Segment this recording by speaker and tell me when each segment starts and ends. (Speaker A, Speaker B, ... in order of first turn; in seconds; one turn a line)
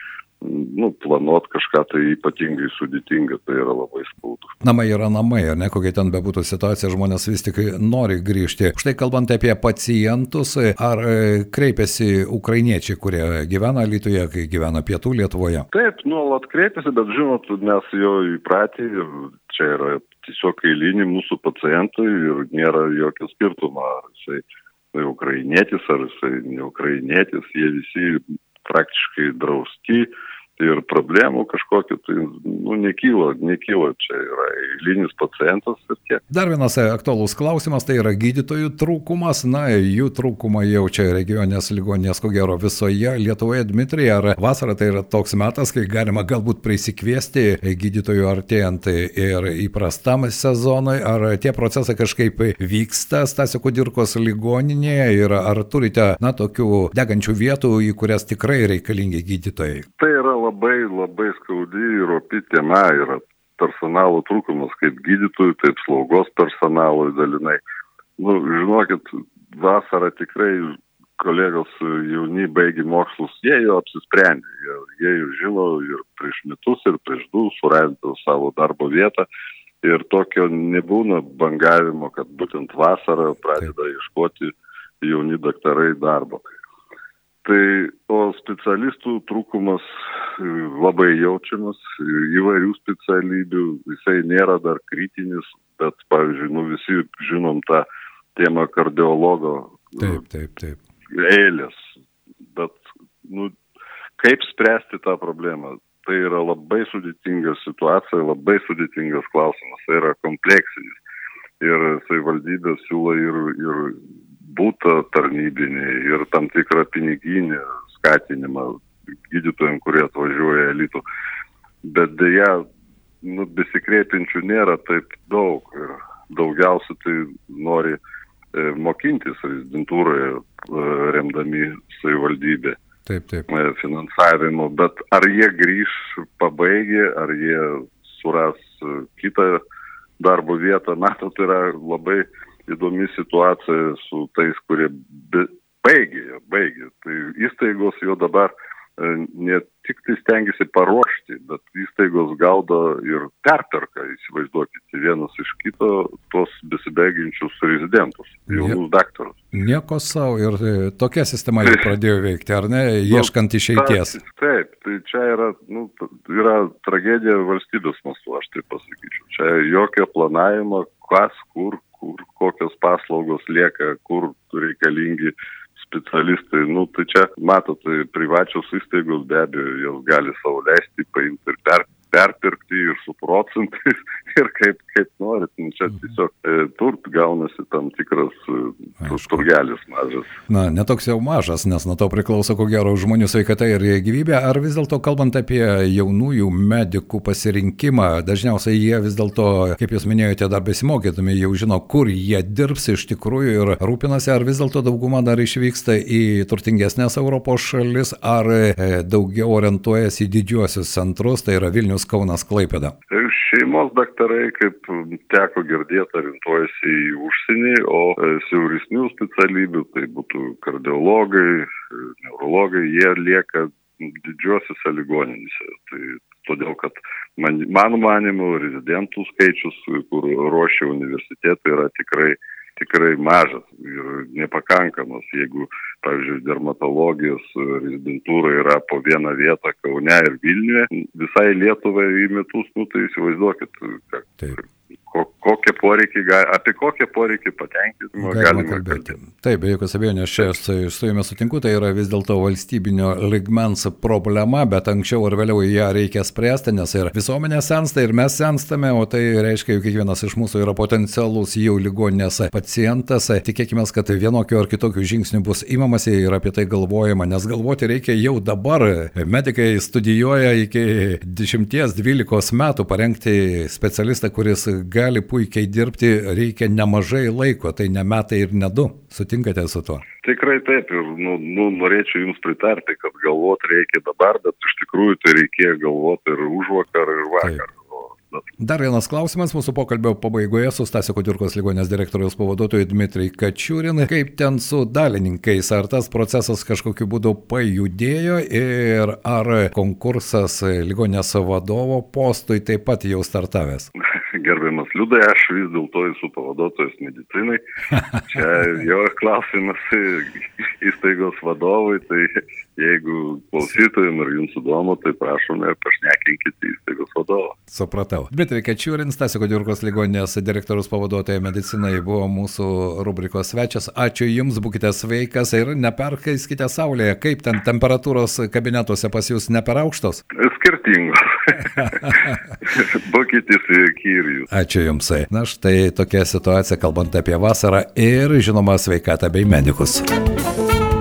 Speaker A: 0.4-4.6
Speaker B: 4.6-15.7
Speaker A: 15.7-36.2
Speaker B: 36.3-59.9
Speaker A: 60.0-67.6
Speaker A: 68.2-79.3
Speaker A: 79.8-86.4
Speaker A: 87.4-100.2
Speaker B: 100.0-100.8
Speaker A: 101.1-101.8
Speaker A: 102.5-103.5
Speaker A: 104.2-111.0
Speaker A: 111.6-118.8
Speaker A: 119.3-121.0
Speaker A: 121.8-122.6
Speaker A: 123.2-128.0
Speaker A: 128.5-132.8
Speaker B: 133.1-133.5
Speaker A: 133.5-139.6
Speaker A: 140.2-159.4
Speaker B: 158.5-158.8
Speaker B: 159.5-164.2
Speaker A: 161.6-161.9
Speaker A: 163.1-190.3
Speaker B: 189.0-189.4
Speaker B: 190.5-212.9
Speaker A: 213.1-249.2
Speaker B: 248.2-280.1
Speaker A: 280.2-288.4
Speaker B: 288.6-303.9
Speaker A: 304.3-307.6
Speaker A: 308.2-317.6
Speaker B: 317.7-330.2
Speaker A: 330.3-334.5
Speaker B: 334.5-340.1